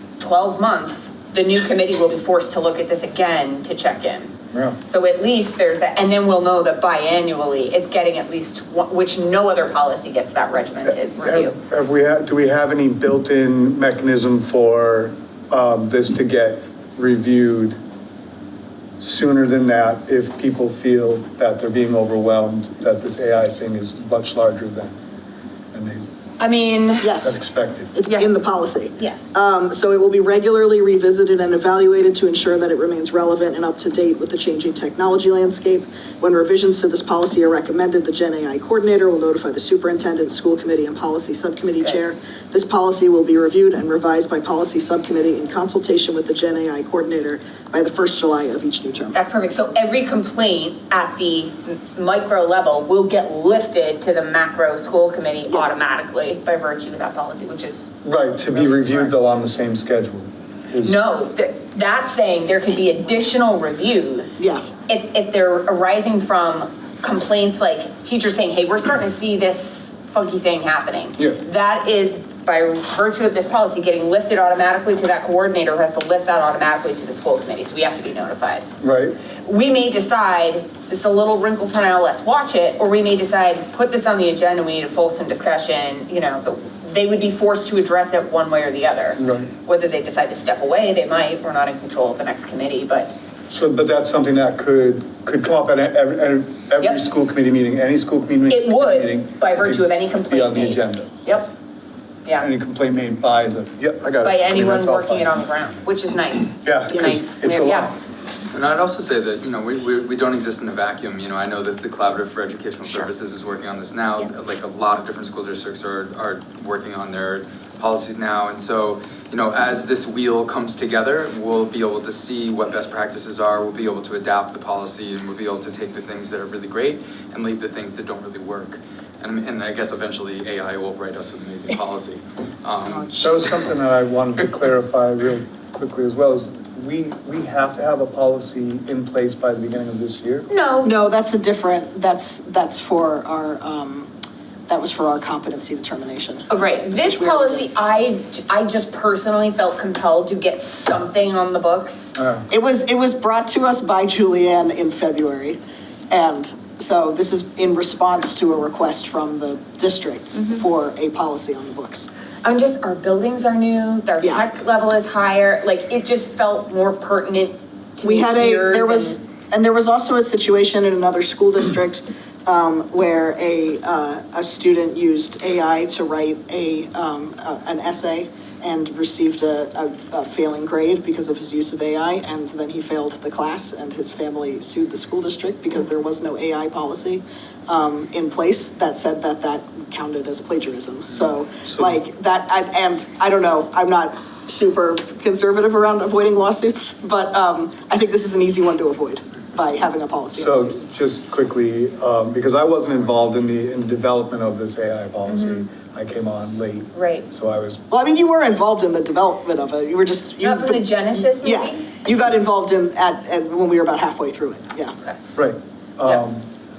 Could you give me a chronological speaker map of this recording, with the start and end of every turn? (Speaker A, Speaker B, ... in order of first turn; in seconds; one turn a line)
Speaker A: 0.2-4.3
Speaker B: 4.5-4.8
Speaker A: 4.9-11.6
Speaker B: 11.2-17.8
Speaker B: 19.0-25.0
Speaker B: 25.7-26.1
Speaker A: 26.4-27.2
Speaker C: 27.0-27.3
Speaker B: 27.2-27.9
Speaker C: 27.9-49.1
Speaker A: 49.1-57.9
Speaker B: 58.0-61.0
Speaker A: 58.5-59.1
Speaker A: 60.8-78.7
Speaker C: 64.4-64.6
Speaker B: 78.8-79.2
Speaker A: 79.4-93.1
Speaker B: 89.2-89.5
Speaker B: 93.5-101.1
Speaker A: 98.5-101.5
Speaker B: 102.4-105.4
Speaker A: 104.2-107.9
Speaker B: 106.6-107.9
Speaker D: 108.5-133.6
Speaker B: 133.2-140.5
Speaker A: 140.5-140.9
Speaker C: 140.8-144.1
Speaker C: 144.7-147.6
Speaker A: 146.5-152.1
Speaker B: 152.1-152.5
Speaker C: 152.5-155.6
Speaker C: 156.1-162.1
Speaker A: 160.3-160.6
Speaker A: 162.4-169.2
Speaker C: 164.2-164.5
Speaker C: 168.0-200.8
Speaker B: 191.6-191.9
Speaker B: 200.3-207.8
Speaker A: 205.3-205.7
Speaker A: 206.9-207.3
Speaker C: 207.9-210.8
Speaker A: 210.4-211.9
Speaker C: 211.4-214.9
Speaker B: 215.3-216.5